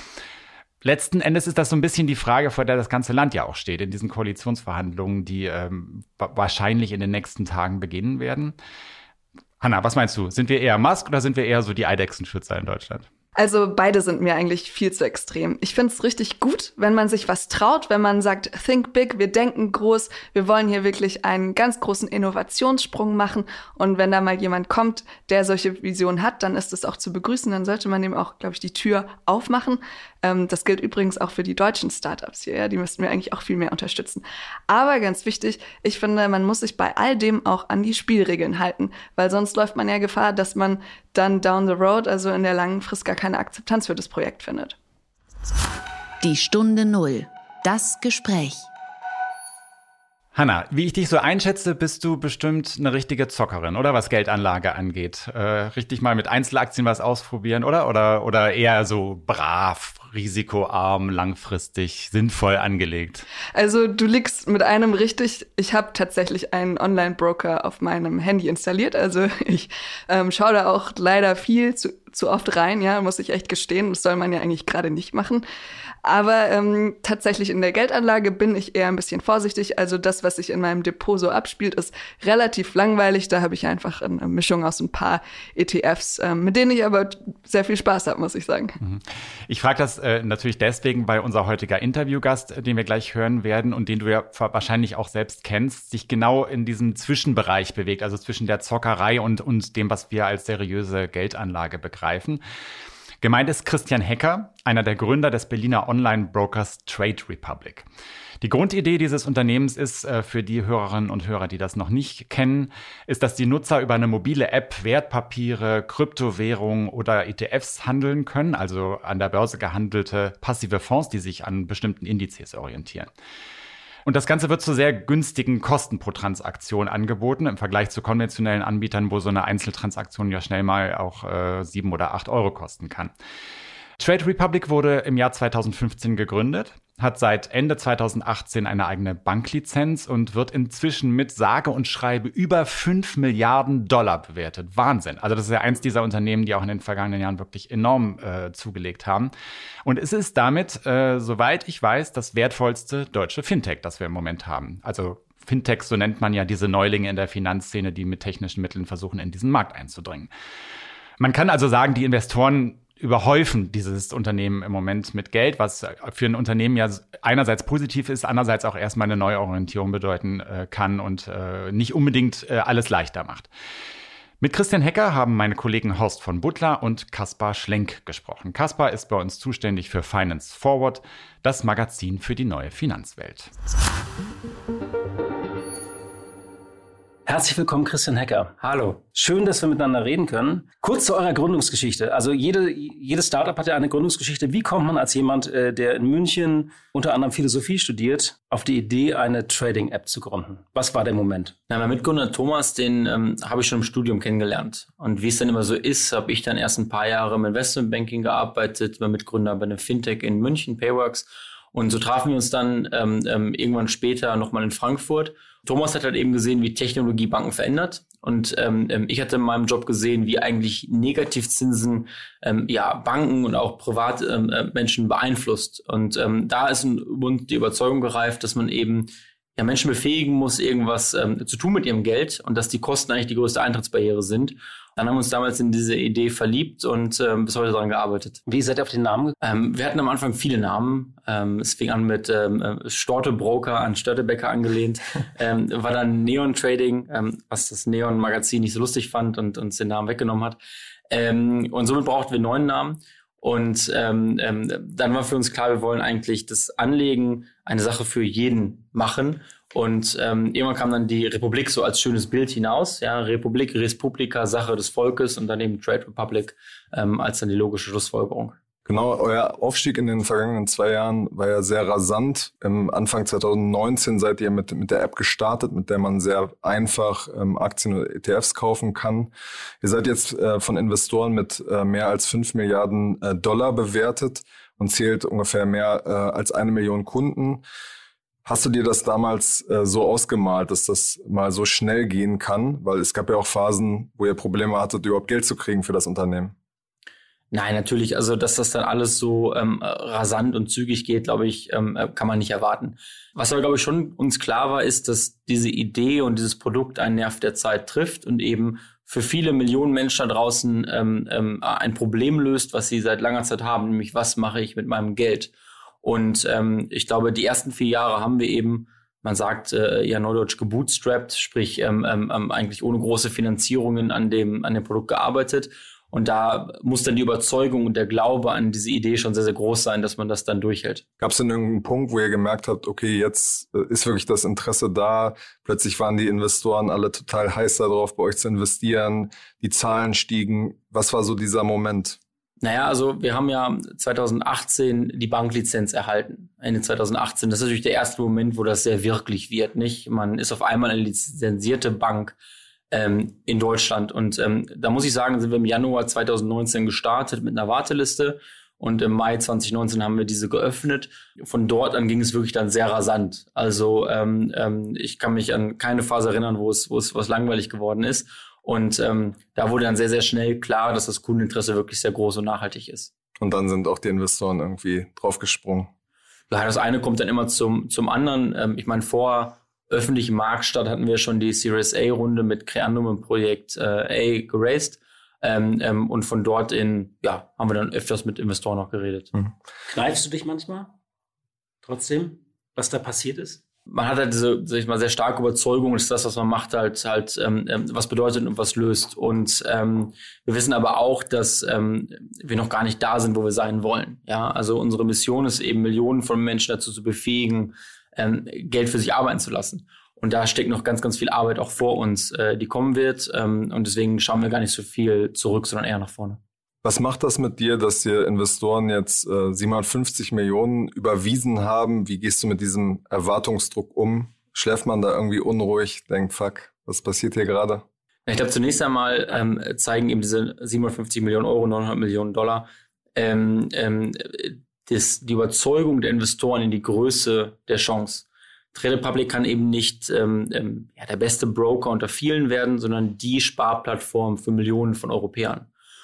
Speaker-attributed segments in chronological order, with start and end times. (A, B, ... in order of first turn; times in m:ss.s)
0:00.8-0:08.5 A
0:09.6-0:13.1 A
0:13.4-0:44.8 B
0:46.2-0:48.7 C
0:50.3-1:03.3 A
1:03.5-1:15.4 B
1:16.0-1:28.8 B
1:28.8-1:42.4 A
1:43.2-1:47.8 A
1:48.4-2:03.1 A
2:04.0-2:13.1 A
2:14.0-2:29.3 A
2:29.8-2:40.3 A
2:41.2-2:53.5 A
2:54.4-3:03.5 A
3:07.2-3:08.5 D
3:08.6-3:09.0 E
3:09.1-3:21.5 D
3:21.7-3:58.4 E
3:58.5-3:59.4 D
3:59.4-4:10.6 E
4:11.1-4:28.6 E
4:28.8-4:47.6 F
4:48.4-4:56.5 F
4:57.5-5:15.5 E
5:16.0-5:31.0 E
5:31.2-5:42.2 F
5:42.6-5:52.4 E
5:52.9-6:13.1 E
6:13.4-6:15.9 F
6:16.5-6:29.3 E
6:29.9-6:30.9 D
6:31.8-6:33.6 D
6:33.9-6:56.4 E
6:56.8-7:07.8 F
7:08.3-7:25.7 E